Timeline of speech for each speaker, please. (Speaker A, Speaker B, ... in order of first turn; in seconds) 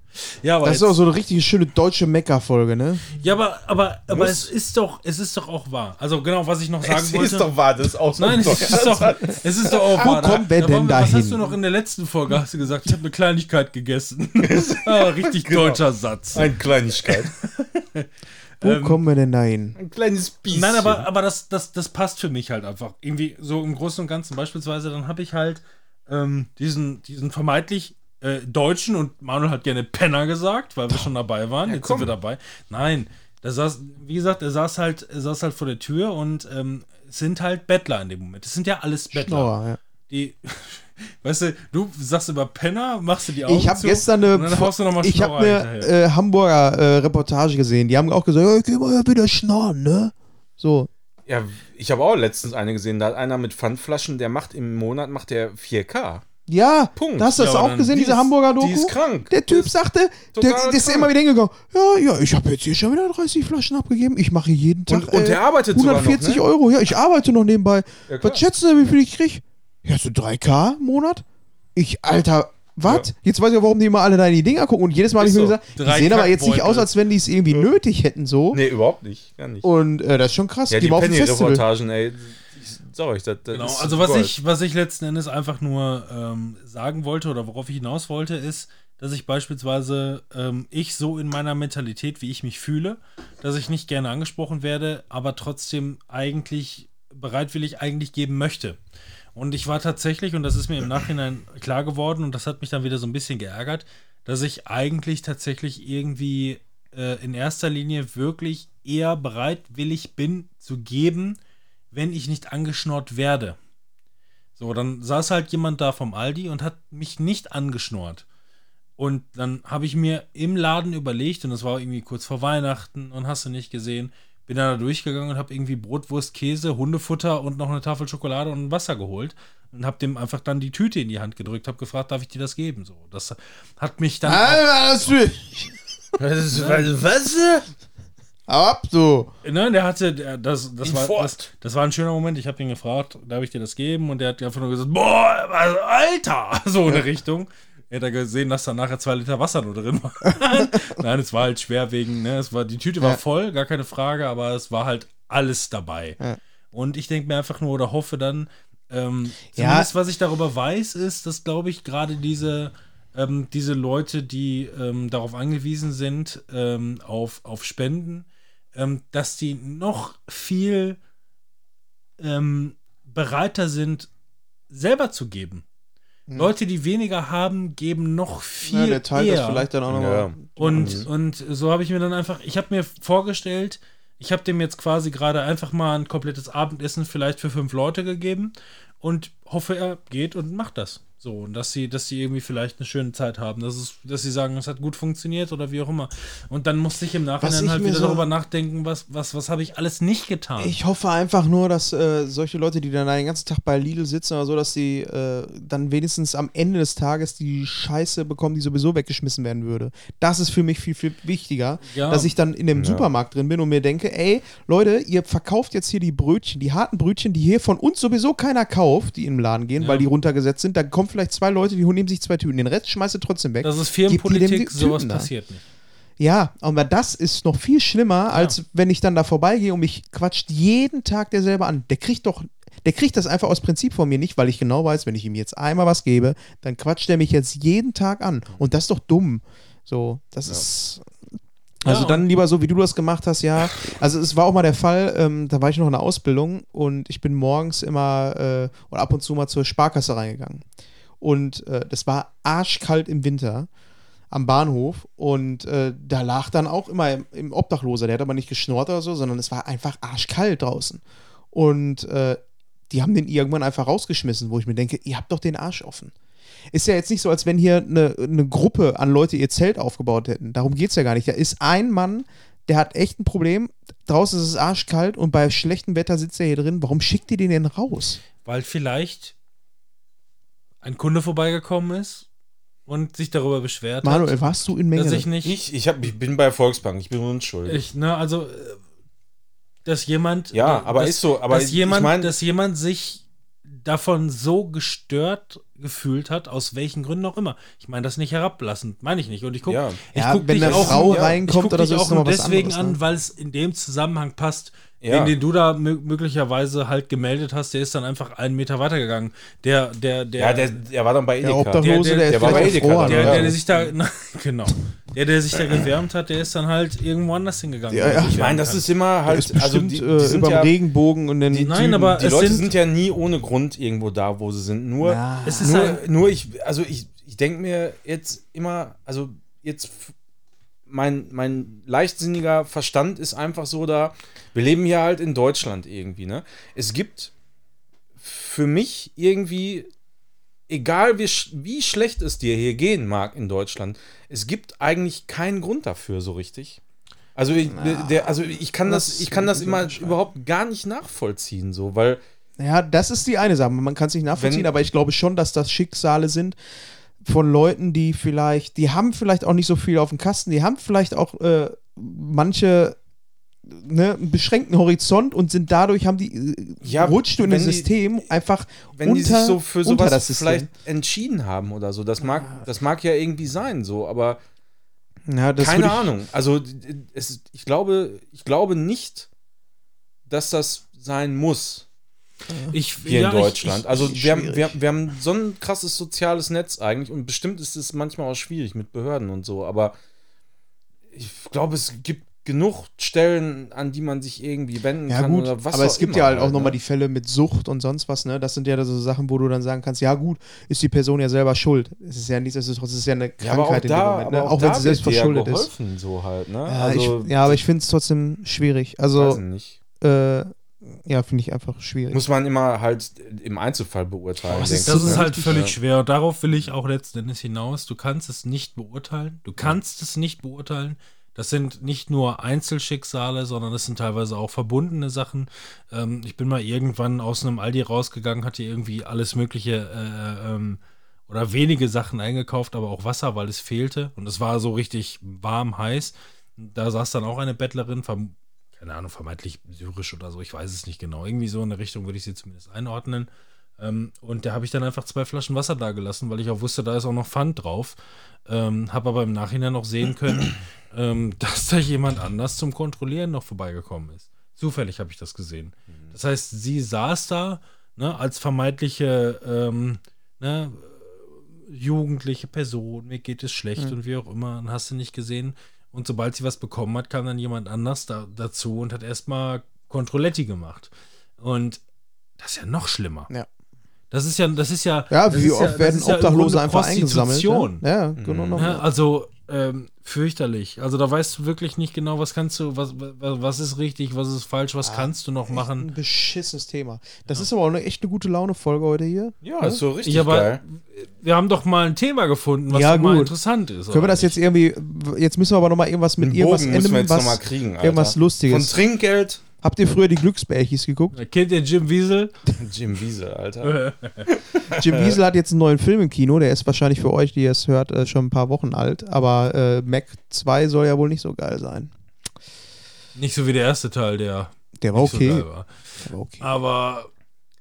Speaker A: 0.4-1.0, 3.1-7.5, 8.2-18.1, 18.6-19.0, 20.5-39.5, 40.1-45.9, 57.4-58.0, 75.7-76.9, 83.5-98.8, 99.3-111.4, 111.9-113.6, 114.5-118.2, 119.0-135.1, 136.5-136.9, 139.4-156.2, 156.7-171.0, 172.2-174.1, 174.7-175.6, 176.3-179.7, 180.6-200.8, 211.9-212.3, 219.8-220.1, 223.6-225.6, 241.8-242.2, 278.4-279.3, 280.8-282.3, 282.9-284.4, 284.9-285.5, 287.7-288.8, 289.8-310.8, 311.8-318.8, 321.5-322.7, 325.4-326.0, 382.7-383.8, 414.7-471.8, 472.4-473.3, 474.1-477.8, 478.6-485.9, 490.0-494.3, 501.1-502.3, 503.6-504.3, 513.1-517.1
Speaker B: 0.6-3.0, 10.0-11.4, 18.6-19.8, 39.1-39.8, 43.5-50.9, 56.5-71.2, 71.7-78.6, 79.6-81.6, 134.2-135.7, 138.5-139.3, 150.4-150.8, 159.5-159.9, 176.3-176.5, 178.7-181.1, 197.4-198.3, 200.6-225.3, 226.2-241.1, 241.8-250.6, 251.2-253.7, 254.3-266.1, 266.7-278.2, 284.0-285.3, 300.1-303.0, 311.4-313.6, 317.9-318.4, 319.2-322.1, 325.0-325.9, 347.7-350.2, 352.6-356.6, 357.2-363.0, 363.6-370.7, 372.2-372.6, 375.3-376.1, 382.5-382.7, 383.9-384.8, 395.1-405.7, 406.6-409.4, 410.0-412.2, 414.5-415.7, 475.1-478.8, 484.8-489.8, 492.7-493.4, 493.9-498.8, 499.6-501.2, 504.7-511.9, 514.8-515.5, 516.0-516.5
Speaker C: 4.1-4.5, 6.8-10.1, 14.4-15.8, 16.3-17.3, 19.8-21.1, 31.6-32.1, 51.3-56.2, 57.0-59.7, 60.3-61.1, 64.9-66.4, 68.1-68.4, 75.2-75.6, 78.5-79.7, 80.7-84.3, 136.2-137.7, 140.8-141.4, 179.9-181.1, 212.7-213.1, 285.4-287.8, 290.5-292.4, 299.6-300.0, 300.6-301.4, 305.0-305.3, 310.4-313.6, 318.3-320.7, 321.5-330.1, 330.9-337.3, 338.2-339.9, 340.7-346.8, 347.3-352.2, 354.4-354.7, 366.8-367.9, 368.9-374.4, 375.6-379.3, 380.3-381.9, 383.0-390.0, 391.1-396.8, 403.4-407.6, 409.1-409.8, 412.1-415.7, 478.2-478.6, 489.4-490.6, 496.2-499.4, 502.6-505.1